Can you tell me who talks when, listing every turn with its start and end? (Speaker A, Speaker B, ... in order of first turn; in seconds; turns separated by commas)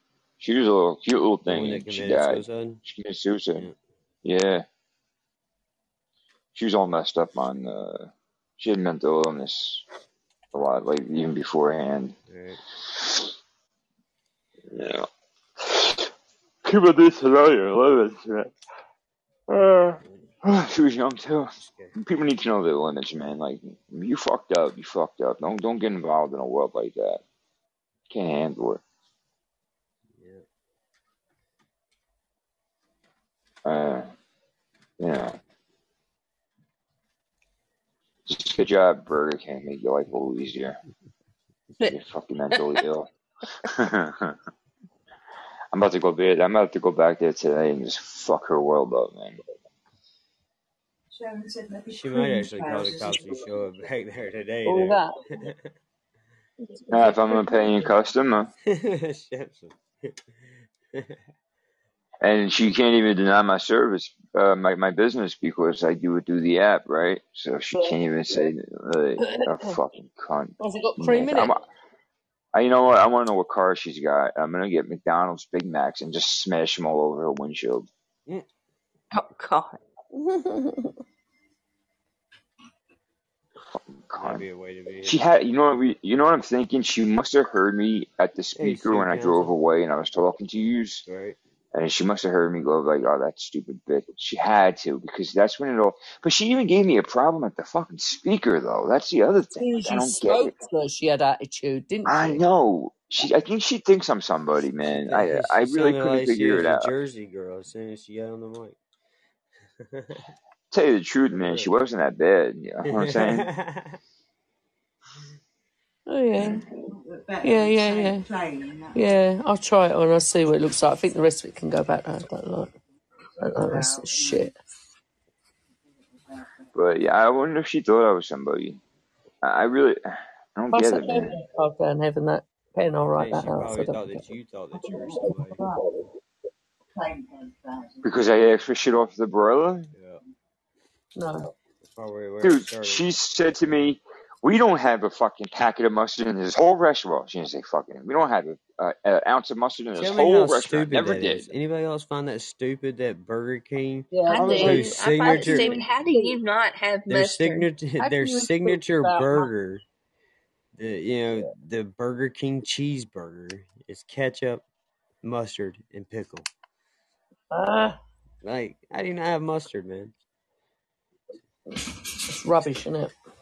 Speaker A: 0.4-3.7, Speaker B: 1.4-2.8, Speaker A: 4.2-4.7, Speaker A: 6.5-9.8, Speaker A: 10.5-12.2, Speaker B: 12.3-12.6, Speaker A: 12.9-13.3, Speaker A: 14.7-16.1, Speaker A: 16.6-18.5, Speaker A: 19.5-27.2, Speaker B: 20.0-20.3, Speaker B: 21.6-21.9, Speaker A: 28.1-28.8, Speaker B: 30.2-30.4, Speaker A: 33.6-34.1, Speaker A: 35.0-35.4, Speaker A: 38.3-40.8, Speaker A: 41.9-43.1, Speaker A: 43.6-44.4, Speaker A: 45.7-49.4, Speaker C: 51.1-53.5, Speaker B: 51.9-55.7, Speaker D: 54.6-55.1, Speaker D: 56.7-57.9, Speaker A: 56.9-58.5, Speaker B: 58.6-60.1, Speaker A: 62.2-71.7, Speaker D: 67.7-68.4, Speaker D: 69.2-69.7, Speaker D: 70.6-71.5, Speaker A: 72.5-77.9, Speaker E: 79.2-79.7, Speaker D: 80.1-81.0, Speaker A: 84.0-84.5, Speaker B: 84.2-85.2, Speaker A: 85.0-91.0, Speaker B: 88.6-89.6, Speaker B: 91.1-91.4, Speaker A: 91.7-100.5, Speaker D: 99.6-102.4, Speaker A: 102.0-106.9, Speaker B: 104.9-108.8, Speaker B: 109.8-110.3, Speaker A: 110.7-113.5, Speaker B: 111.3-111.7, Speaker B: 112.8-114.0, Speaker D: 116.1-116.6, Speaker C: 116.5-119.2, Speaker D: 117.4-118.3, Speaker D: 118.9-122.7, Speaker C: 123.4-124.5, Speaker D: 123.4-124.5, Speaker C: 126.1-126.7, Speaker A: 126.7-128.8, Speaker A: 129.4-131.4, Speaker D: 130.7-134.3, Speaker B: 133.2-135.6, Speaker C: 134.8-135.9, Speaker C: 136.9-138.1, Speaker A: 138.0-139.9, Speaker B: 139.9-140.2, Speaker D: 141.2-141.5, Speaker B: 141.8-143.1, Speaker A: 142.4-151.5, Speaker B: 149.9-155.8, Speaker D: 154.1-154.9, Speaker E: 154.3-157.6, Speaker C: 154.3-156.4, Speaker D: 155.5-156.4, Speaker B: 157.1-159.8, Speaker D: 158.0-159.5, Speaker B: 160.7-164.6, Speaker B: 165.2-166.4, Speaker D: 167.5-168.0, Speaker B: 168.4-170.1, Speaker D: 171.7-173.1